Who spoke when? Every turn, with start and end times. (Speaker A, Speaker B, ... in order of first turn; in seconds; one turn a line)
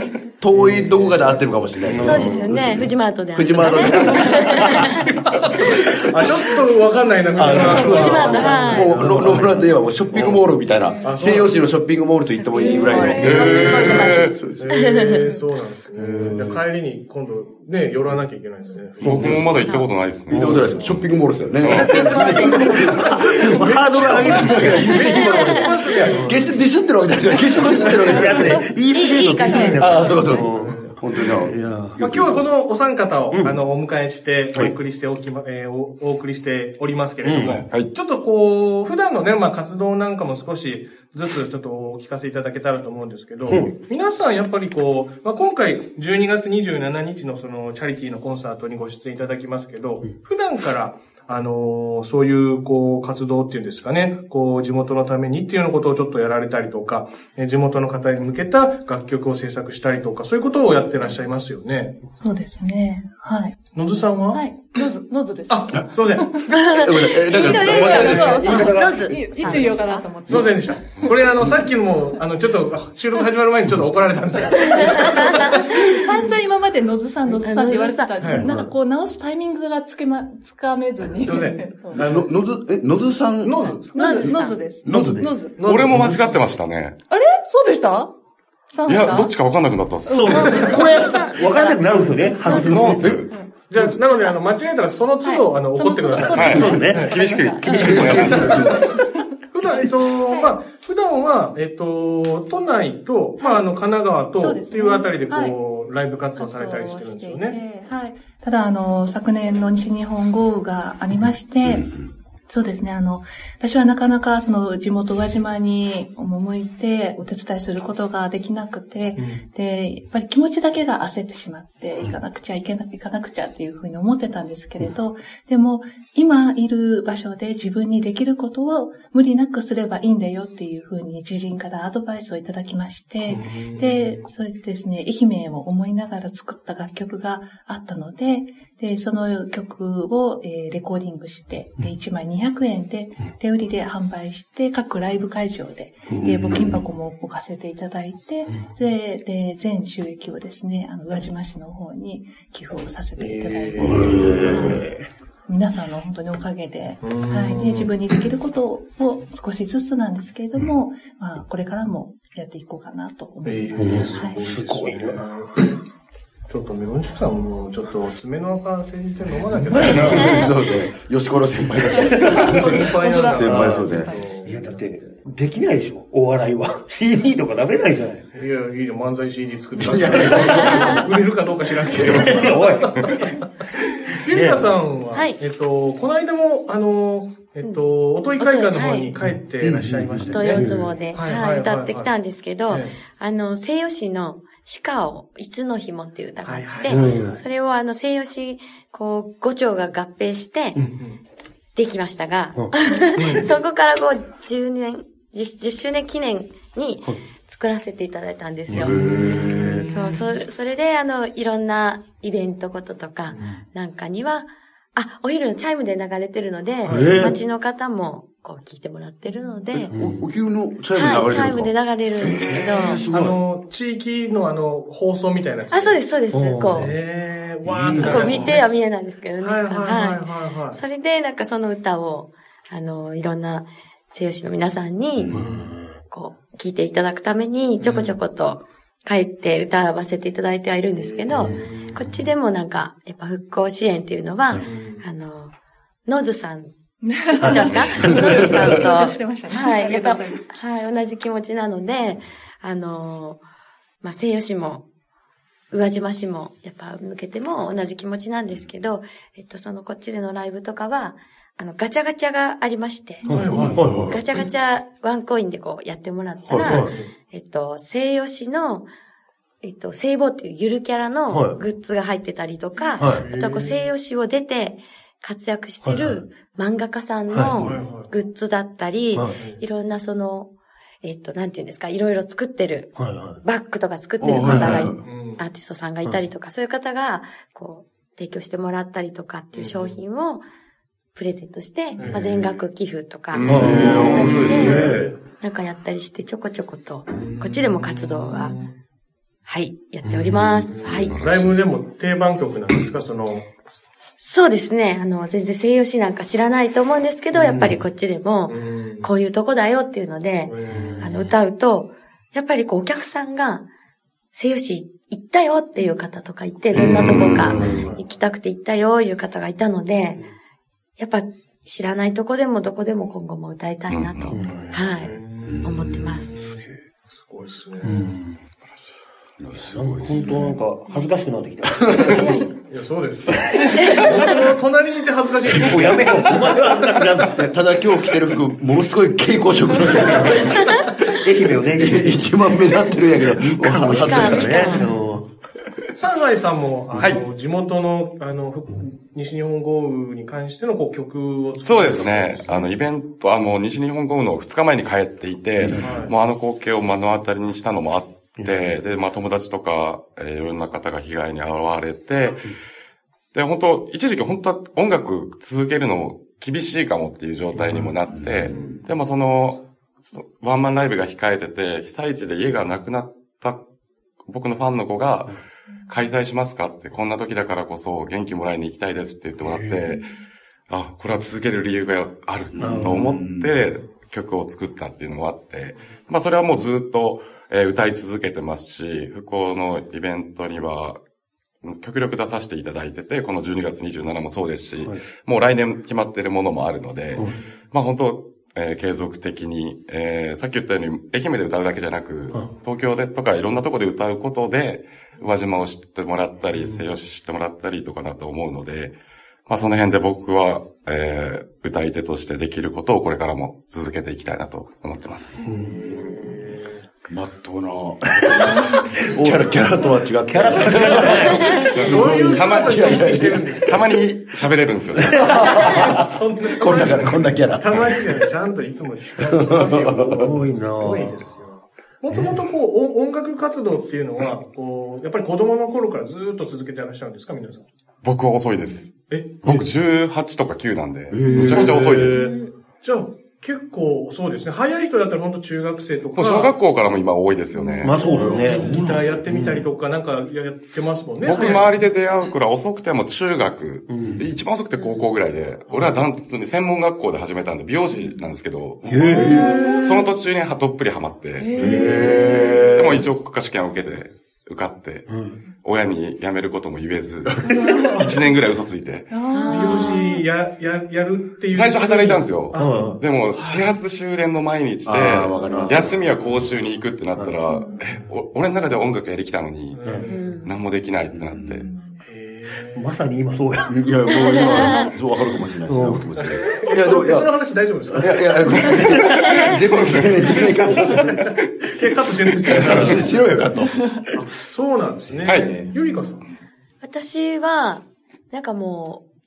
Speaker A: 0.3-4.9
Speaker B: 0.5-0.9
Speaker B: 1.9-2.5
Speaker C: 2.0-5.9
Speaker D: 3.8-4.3
Speaker E: 5.2-9.7
Speaker A: 5.5-6.1
Speaker A: 7.4-14.7
Speaker C: 7.6-9.1
Speaker B: 8.4-10.5
Speaker E: 11.0-11.6
Speaker C: 12.3-15.4
Speaker E: 12.9-19.7
Speaker F: 12.9-14.4
Speaker B: 15.9-16.6
Speaker B: 19.0-19.5
Speaker F: 19.0-21.1
Speaker C: 19.6-19.9
Speaker A: 20.3-28.7
Speaker B: 20.3-20.8
Speaker F: 21.6-22.1
Speaker C: 21.6-22.9
Speaker E: 22.3-26.5
Speaker B: 22.6-24.9
Speaker C: 25.1-25.9
Speaker B: 26.1-26.4
Speaker B: 28.0-32.0
Speaker C: 28.9-30.2
Speaker A: 29.8-32.5
Speaker E: 30.3-31.0
Speaker E: 32.0-62.0
Speaker B: 33.3-33.6
Speaker B: 37.2-37.6
Speaker F: 37.4-37.9
Speaker B: 43.5-43.8
Speaker D: 62.2-63.6
Speaker E: 63.7-64.4
Speaker D: 64.3-66.5
Speaker E: 65.5-66.5
Speaker C: 66.5-70.2
Speaker A: 66.7-68.5
Speaker D: 67.3-71.1
Speaker E: 67.8-68.4
Speaker B: 68.3-69.0
Speaker E: 70.3-75.9
Speaker C: 74.7-76.2
Speaker D: 75.8-82.0
Speaker C: 77.3-78.3
Speaker E: 78.2-78.5
Speaker E: 81.2-82.3
Speaker A: 82.0-85.3
Speaker E: 83.4-84.1
Speaker D: 83.6-85.6
Speaker C: 83.9-84.7
Speaker B: 84.9-85.2
Speaker E: 85.6-86.4
Speaker F: 85.6-87.0
Speaker B: 85.9-86.2
Speaker D: 87.1-88.1
Speaker D: 88.7-89.3
Speaker F: 88.9-90.7
Speaker D: 90.1-91.0
Speaker B: 90.1-93.2
Speaker C: 90.4-93.0
Speaker D: 92.4-93.5
Speaker F: 92.6-93.3
Speaker E: 93.7-97.3
Speaker D: 95.2-99.2
Speaker F: 96.3-98.6
Speaker B: 96.5-97.1
Speaker A: 97.7-98.9
Speaker E: 99.5-107.6
Speaker D: 104.4-105.6
Speaker D: 106.4-111.9
Speaker A: 111.6-112.1
Speaker D: 112.5-154.9
Speaker E: 119.2-119.4
Speaker E: 133.3-134.3
Speaker B: 146.1-146.8
Speaker E: 153.2-154.7
Speaker B: 153.9-155.1
Speaker A: 154.0-154.3
Speaker D: 155.5-164.4
Speaker E: 157.0-157.9
Speaker E: 163.4-165.8
Speaker B: 163.8-165.2
Speaker E: 166.5-170.5
Speaker B: 169.6-170.4
Speaker A: 169.8-174.1
Speaker C: 170.1-170.5
Speaker D: 172.0-174.4
Speaker E: 172.3-175.1
Speaker B: 174.4-178.2
Speaker E: 178.3-183.3
Speaker A: 179.8-181.0
Speaker C: 180.5-181.1
Speaker A: 181.9-182.3
Speaker B: 181.9-183.3
Speaker E: 184.0-192.1
Speaker B: 184.3-184.7
Speaker C: 185.1-185.4
Speaker C: 187.6-189.1
Speaker B: 189.2-190.9
Speaker A: 189.6-190.4
Speaker C: 190.3-200.8
Speaker E: 192.7-193.0
Speaker E: 196.4-197.4
Speaker B: 196.9-197.4
Speaker E: 200.8-201.2
Speaker C: 201.8-219.9
Speaker E: 203.2-203.5
Speaker B: 208.7-209.8
Speaker A: 208.8-209.4
Speaker E: 208.9-210.3
Speaker E: 213.3-213.6
Speaker E: 216.8-217.4
Speaker B: 216.9-217.4
Speaker A: 219.7-223.4
Speaker B: 219.9-220.2
Speaker C: 220.9-223.1
Speaker E: 223.1-226.1
Speaker C: 225.7-226.9
Speaker B: 226.3-226.9
Speaker E: 226.7-228.8
Speaker A: 227.7-228.2
Speaker B: 227.8-228.5
Speaker C: 228.0-235.4
Speaker E: 229.4-230.8
Speaker A: 235.2-235.5
Speaker E: 235.3-235.7
Speaker B: 235.4-236.0
Speaker C: 236.0-245.6
Speaker E: 237.8-238.2
Speaker E: 240.9-242.1
Speaker E: 244.6-245.1
Speaker C: 246.1-246.7
Speaker D: 247.0-250.5
Speaker C: 247.4-253.4
Speaker B: 247.4-247.7
Speaker A: 248.0-248.8
Speaker C: 254.0-254.8
Speaker C: 255.7-268.9
Speaker E: 263.2-264.0
Speaker B: 263.2-264.1
Speaker A: 263.5-264.2
Speaker A: 266.5-266.7
Speaker E: 266.6-267.1
Speaker B: 266.6-266.9
Speaker C: 269.6-280.5
Speaker B: 271.3-271.6
Speaker E: 273.0-273.9
Speaker B: 273.0-273.2
Speaker B: 275.8-276.2
Speaker B: 277.3-277.7
Speaker E: 277.6-278.1
Speaker E: 279.4-279.6
Speaker C: 281.0-290.4
Speaker B: 283.0-283.4
Speaker A: 284.2-285.0
Speaker E: 284.4-285.4
Speaker B: 284.5-284.8
Speaker E: 289.5-290.0
Speaker C: 291.1-298.6
Speaker E: 292.0-292.5
Speaker E: 293.4-295.2
Speaker B: 293.4-295.0
Speaker A: 293.5-294.9
Speaker E: 297.1-298.8
Speaker C: 299.5-301.2
Speaker B: 300.0-300.6
Speaker E: 300.7-303.5
Speaker F: 300.7-301.8
Speaker C: 304.2-313.7
Speaker B: 307.3-307.8
Speaker E: 308.5-309.1
Speaker E: 310.5-311.2
Speaker B: 310.7-311.3
Speaker C: 314.3-320.2
Speaker E: 316.7-318.0
Speaker F: 316.8-317.6
Speaker B: 316.8-317.9
Speaker C: 321.0-326.3
Speaker F: 323.9-324.4
Speaker B: 324.3-324.8
Speaker E: 325.0-328.1
Speaker A: 325.4-326.2
Speaker B: 326.4-326.8
Speaker B: 327.8-328.4
Speaker F: 328.6-328.9
Speaker A: 329.4-330.4
Speaker B: 329.6-332.3
Speaker A: 331.7-332.3
Speaker C: 332.0-332.6
Speaker E: 332.6-336.8
Speaker B: 333.5-334.3
Speaker C: 333.7-334.5
Speaker B: 335.5-337.5
Speaker A: 337.3-340.7
Speaker B: 340.0-340.5
Speaker E: 340.3-340.5
Speaker C: 340.6-340.9
Speaker B: 341.1-345.3
Speaker A: 341.7-344.7
Speaker C: 343.9-344.9
Speaker E: 346.0-352.7
Speaker F: 347.0-347.2
Speaker F: 351.6-362.5
Speaker E: 355.8-356.1
Speaker B: 358.4-358.7
Speaker F: 363.3-373.6
Speaker B: 367.6-367.9
Speaker A: 368.1-368.8
Speaker E: 368.5-368.8
Speaker F: 374.3-375.3
Speaker F: 375.9-380.1
Speaker B: 379.4-379.8
Speaker F: 380.7-391.0
Speaker A: 382.5-383.5
Speaker B: 382.6-383.1
Speaker F: 391.6-409.0
Speaker E: 397.1-397.6
Speaker E: 402.3-402.6
Speaker F: 409.5-415.5
Speaker B: 415.4-416.3
Speaker E: 416.2-416.9
Speaker A: 417.1-423.8
Speaker B: 418.1-419.7
Speaker B: 420.3-421.9
Speaker E: 420.9-423.9
Speaker F: 421.7-425.7
Speaker A: 425.1-428.0
Speaker E: 425.2-437.7
Speaker A: 429.2-430.4
Speaker B: 430.0-431.2
Speaker B: 432.1-432.4
Speaker F: 438.0-438.9
Speaker E: 439.1-439.5
Speaker F: 439.4-442.3
Speaker A: 441.1-441.9
Speaker B: 441.3-442.0
Speaker E: 441.5-446.6
Speaker C: 442.1-442.5
Speaker F: 446.1-448.0
Speaker B: 447.8-448.7
Speaker E: 447.9-451.8
Speaker A: 448.1-449.3
Speaker B: 449.3-449.7
Speaker F: 451.2-458.8
Speaker B: 453.9-454.2
Speaker E: 455.7-456.1
Speaker A: 458.8-459.8
Speaker B: 458.9-459.4
Speaker D: 459.1-460.0
Speaker E: 459.2-459.9
Speaker F: 459.7-461.7
Speaker D: 461.4-462.9
Speaker A: 461.6-463.1
Speaker E: 461.6-462.3
Speaker F: 462.7-465.1
Speaker B: 465.1-465.4
Speaker F: 465.6-469.1
Speaker D: 467.4-468.3
Speaker D: 469.1-470.2
Speaker C: 469.3-470.1
Speaker E: 469.5-473.7
Speaker F: 471.5-481.7
Speaker B: 472.6-473.0
Speaker A: 474.9-476.2
Speaker B: 475.4-475.9
Speaker D: 477.5-477.8
Speaker E: 479.7-480.5
Speaker B: 479.8-480.1
Speaker C: 480.1-480.5
Speaker A: 481.1-481.6
Speaker D: 481.5-482.1
Speaker E: 482.1-482.9
Speaker B: 482.7-483.8
Speaker A: 483.7-487.3
Speaker C: 484.1-484.9
Speaker D: 484.6-484.9
Speaker B: 485.7-486.1
Speaker E: 486.2-489.0
Speaker A: 487.9-491.4
Speaker C: 489.2-489.6
Speaker E: 490.0-493.2
Speaker A: 492.4-494.0
Speaker B: 492.5-493.0
Speaker E: 494.1-496.3
Speaker F: 495.2-495.6
Speaker D: 495.5-496.1
Speaker C: 496.8-499.0